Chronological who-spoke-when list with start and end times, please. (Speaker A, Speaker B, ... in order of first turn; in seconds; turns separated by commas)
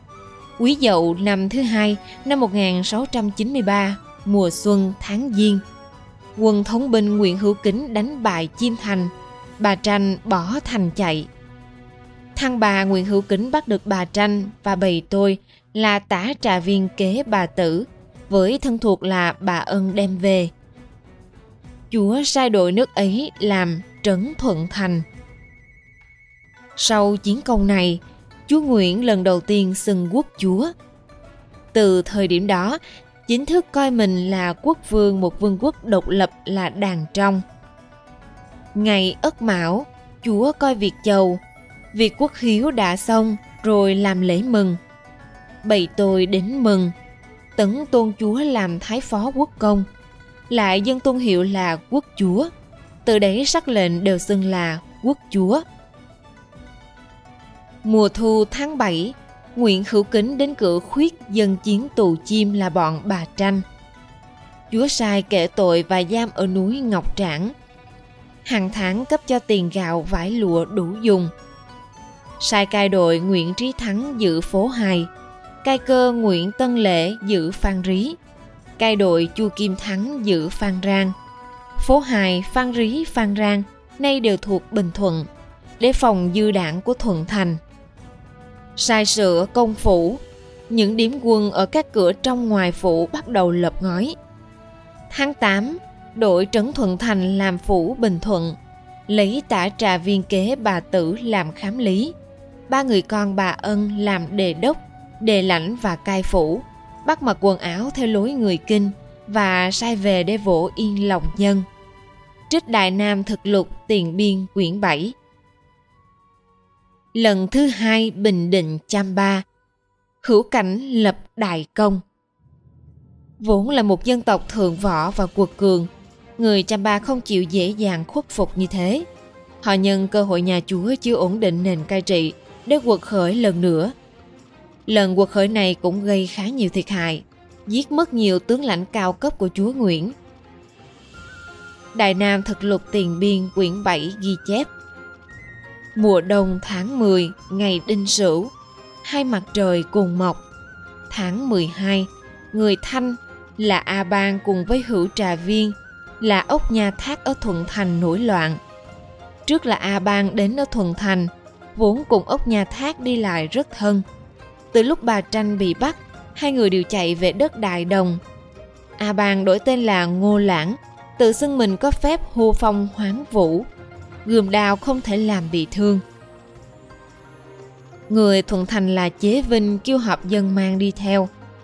Speaker A: 0.6-5.6, Speaker A: 6.4-11.3, Speaker A: 12.3-20.5, Speaker A: 21.9-25.1, Speaker A: 26.8-30.7, Speaker A: 31.7-37.4, Speaker A: 38.8-41.4, Speaker A: 41.9-44.8, Speaker A: 45.6-46.9, Speaker A: 47.6-49.9, Speaker A: 50.5-52.5, Speaker A: 53.0-55.6, Speaker A: 57.8-63.6, Speaker A: 64.7-67.5, Speaker A: 68.5-71.3, Speaker A: 72.4-75.1, Speaker A: 75.6-78.2, Speaker A: 78.8-81.1, Speaker A: 81.8-85.3, Speaker A: 85.8-87.6, Speaker A: 88.8-94.2, Speaker A: 95.1-98.6, Speaker A: 99.1-102.1, Speaker A: 102.7-111.7, Speaker A: 112.5-115.2, Speaker A: 117.1-119.4, Speaker A: 120.2-122.0, Speaker A: 123.4-129.1, Speaker A: 129.6-133.9, Speaker A: 134.9-140.2, Speaker A: 141.9-144.7, Speaker A: 146.0-148.5, Speaker A: 149.0-150.4, Speaker A: 151.1-158.6, Speaker A: 159.5-164.0, Speaker A: 164.7-168.2, Speaker A: 169.0-173.7, Speaker A: 174.2-176.0, Speaker A: 178.1-181.3